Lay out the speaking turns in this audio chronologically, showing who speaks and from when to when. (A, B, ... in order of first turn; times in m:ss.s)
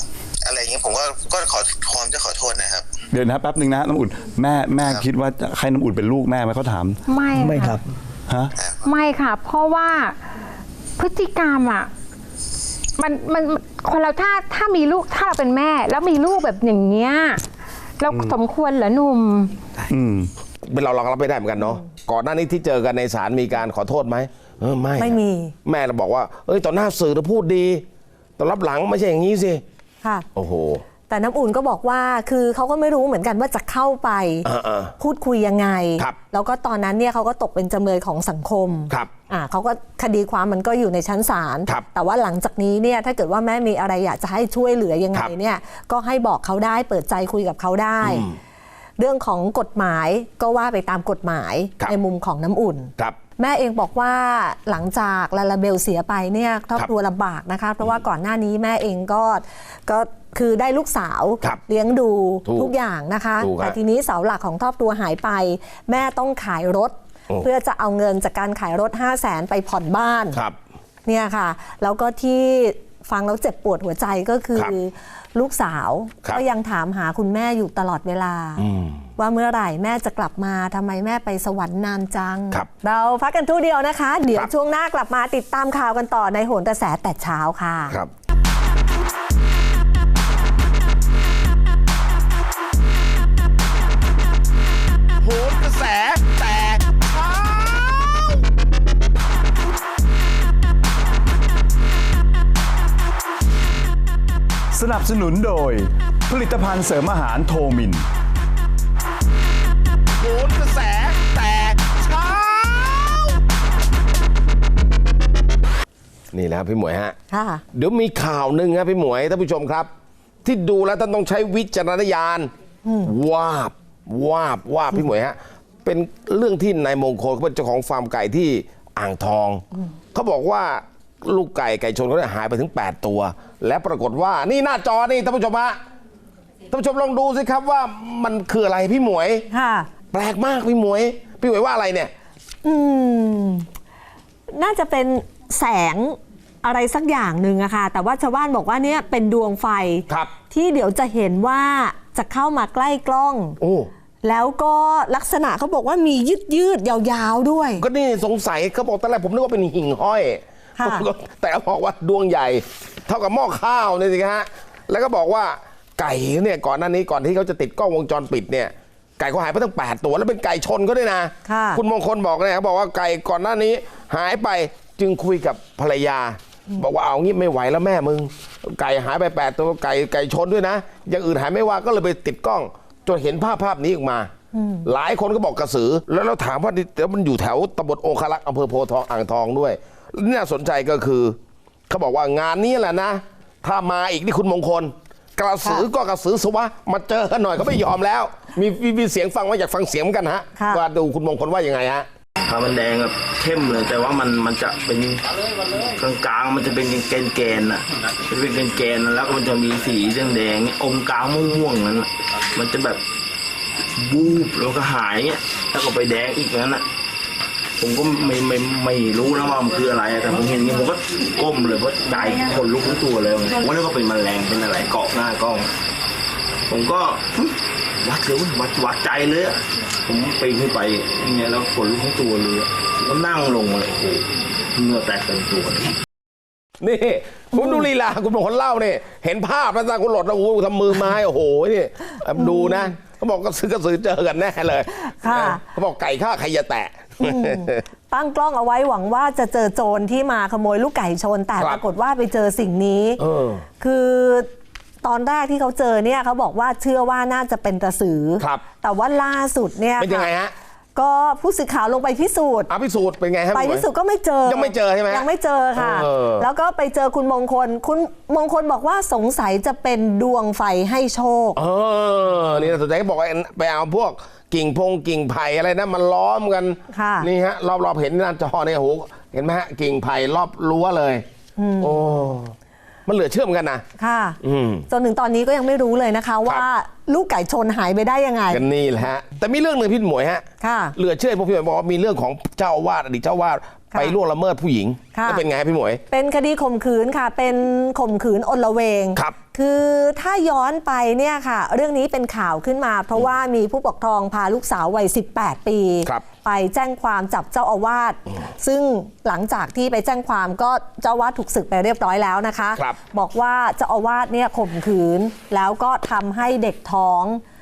0:00.4-0:02.9 A
0:03.1-0:08.5 B
0:07.1-0:07.8 C
0:08.8-0:10.2 C
0:11.0-0:11.9 C
0:13.0-0:17.4 C
0:18.0-0:19.6 C
0:18.1-0:18.4 B
0:19.9-0:20.3 B
0:20.6-0:27.8 D
0:25.0-0:25.5 E
0:28.4-0:29.6 D
0:30.4-0:30.8 D
0:31.1-0:34.5 E
0:34.4-0:34.9 D
0:35.0-0:48.3 E
0:48.0-0:48.4 D
0:49.0-1:10.4 E
1:02.4-1:02.7 D
1:03.4-1:03.8 D
1:10.3-1:10.6 D
1:11.1-1:18.6 E
1:18.6-1:19.0 D
1:19.2-1:28.0 E
1:35.2-1:38.4 D
1:44.7-1:48.0 B
1:50.2-1:53.4 D
1:56.3-1:57.2 D
1:57.3-1:57.6 E
1:57.7-1:59.9 D
2:00.4-2:02.5 D
2:02.8-2:03.1 E
2:03.0-2:15.8 D
2:16.7-2:19.5 D
2:19.5-2:19.9 E
2:20.1-2:22.1 D
2:22.6-2:23.7 E
2:24.5-2:33.6 E
2:33.6-2:33.9 D
2:34.2-2:37.8 E
2:37.8-3:04.3 D
2:40.8-2:41.1 E
2:51.5-2:51.8 E
3:04.5-3:04.9 E
3:04.8-3:11.4 D
3:11.9-3:22.1 D
3:20.6-3:20.8 E
3:22.4-3:25.2 F
3:25.8-3:33.0 F
3:34.0-3:36.8 F
3:37.8-3:45.7 F
3:46.7-3:55.9 F
3:56.8-4:07.8 D
3:57.5-3:57.8 E
4:02.4-4:02.9 E
4:05.2-4:05.6 E
4:07.2-4:13.2 E
4:13.2-4:13.6 D
4:13.8-4:14.5 E
4:15.0-4:20.3 E
4:20.0-4:20.5 D
4:21.0-4:22.7 E
4:22.7-4:23.8 D
4:23.5-4:31.6 E
4:24.5-4:26.5 D
4:31.6-4:41.2 D
4:36.9-4:37.3 E
4:41.6-4:42.0 E
4:41.8-4:42.6 D
4:43.1-4:43.8 D
4:44.0-4:48.6 E
4:44.4-4:44.9 D
4:48.5-4:56.0 D
4:50.6-4:51.0 E
4:55.1-4:55.4 E
4:56.1-5:17.4 E